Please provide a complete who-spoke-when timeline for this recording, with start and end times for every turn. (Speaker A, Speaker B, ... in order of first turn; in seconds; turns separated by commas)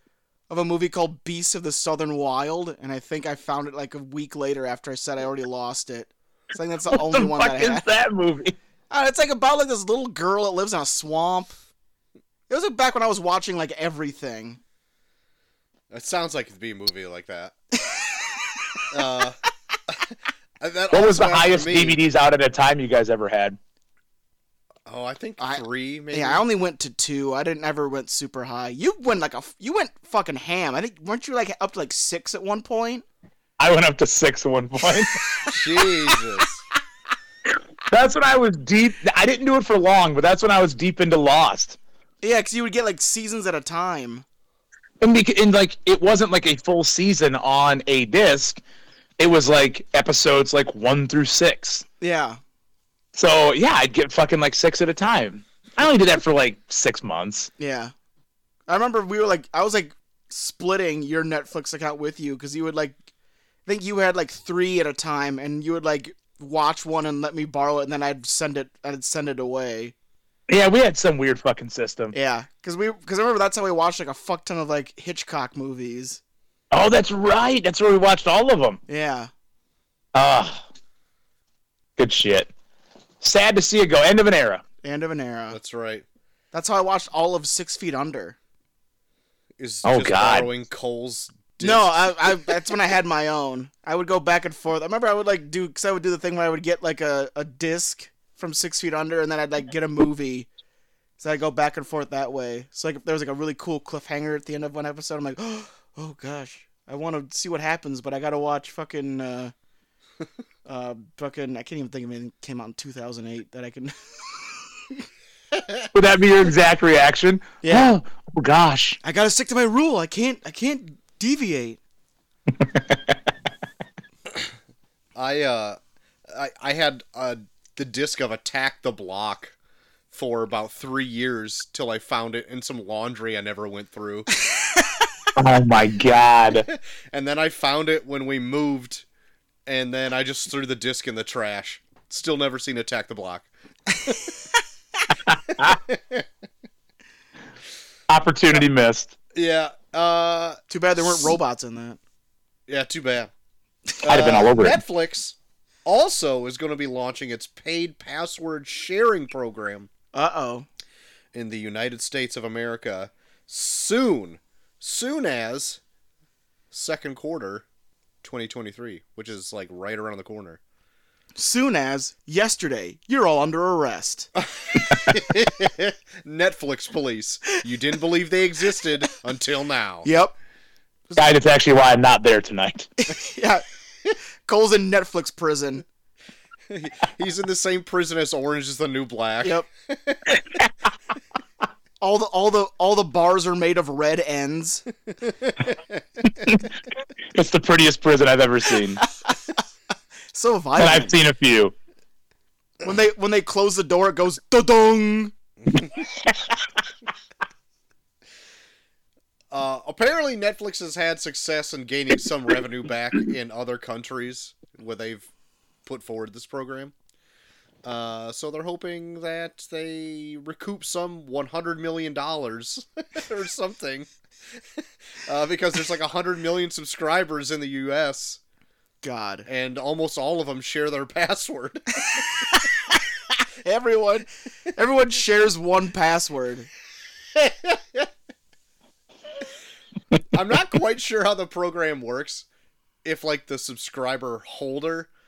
Speaker A: 0.5-7.8, Speaker B: 6.9-8.5, Speaker A: 8.9-11.6, Speaker A: 12.5-14.6, Speaker C: 15.9-17.5, Speaker A: 17.8-18.8, Speaker C: 18.9-22.0, Speaker B: 20.9-23.6, Speaker C: 24.9-26.4, Speaker A: 25.4-33.0, Speaker B: 33.6-35.2, Speaker C: 35.4-36.6, Speaker B: 37.9-41.8, Speaker A: 42.2-44.2, Speaker B: 45.0-48.6, Speaker B: 49.2-51.8, Speaker A: 52.0-52.4, Speaker B: 53.1-57.5, Speaker A: 57.6-57.9, Speaker A: 58.7-63.0, Speaker A: 63.6-69.9, Speaker B: 70.5-72.1, Speaker A: 72.1-76.2, Speaker B: 76.7-78.8, Speaker A: 78.9-79.3, Speaker B: 80.1-80.6, Speaker B: 82.0-82.5, Speaker B: 83.2-84.6, Speaker A: 84.8-85.6, Speaker C: 85.5-86.0, Speaker A: 86.5-88.4, Speaker C: 89.6-92.1, Speaker B: 89.8-90.5, Speaker A: 91.6-100.5, Speaker A: 101.2-109.5, Speaker A: 110.7-115.0, Speaker B: 115.9-119.0, Speaker A: 117.6-118.0, Speaker A: 119.0-121.8, Speaker C: 125.2-129.5, Speaker C: 130.1-134.3, Speaker A: 134.5-135.1, Speaker B: 135.3-136.7, Speaker C: 136.5-139.1, Speaker C: 139.7-143.5, Speaker B: 145.3-145.8, Speaker C: 145.9-146.2, Speaker B: 148.1-149.1, Speaker C: 149.3-151.3, Speaker A: 150.7-152.0, Speaker C: 152.7-153.3, Speaker C: 154.0-159.9, Speaker B: 154.0-154.8, Speaker A: 160.1-160.7, Speaker C: 161.3-165.8, Speaker C: 166.7-167.7, Speaker C: 168.2-170.6, Speaker A: 171.3-174.3, Speaker C: 174.4-180.1, Speaker A: 180.0-180.3, Speaker B: 181.2-182.9, Speaker A: 183.0-183.6, Speaker A: 184.4-185.8, Speaker C: 186.7-190.4, Speaker A: 192.0-194.8, Speaker C: 195.2-196.4, Speaker B: 196.4-196.7, Speaker B: 197.3-199.0, Speaker A: 199.0-199.5, Speaker A: 200.3-201.2, Speaker B: 200.8-201.7, Speaker A: 202.8-205.3, Speaker C: 209.5-215.3, Speaker C: 215.8-216.9, Speaker C: 217.8-224.1, Speaker C: 225.2-228.4, Speaker A: 229.0-229.5, Speaker C: 229.4-232.2, Speaker A: 232.2-236.7, Speaker C: 237.3-238.1, Speaker C: 240.3-242.4, Speaker C: 243.0-245.1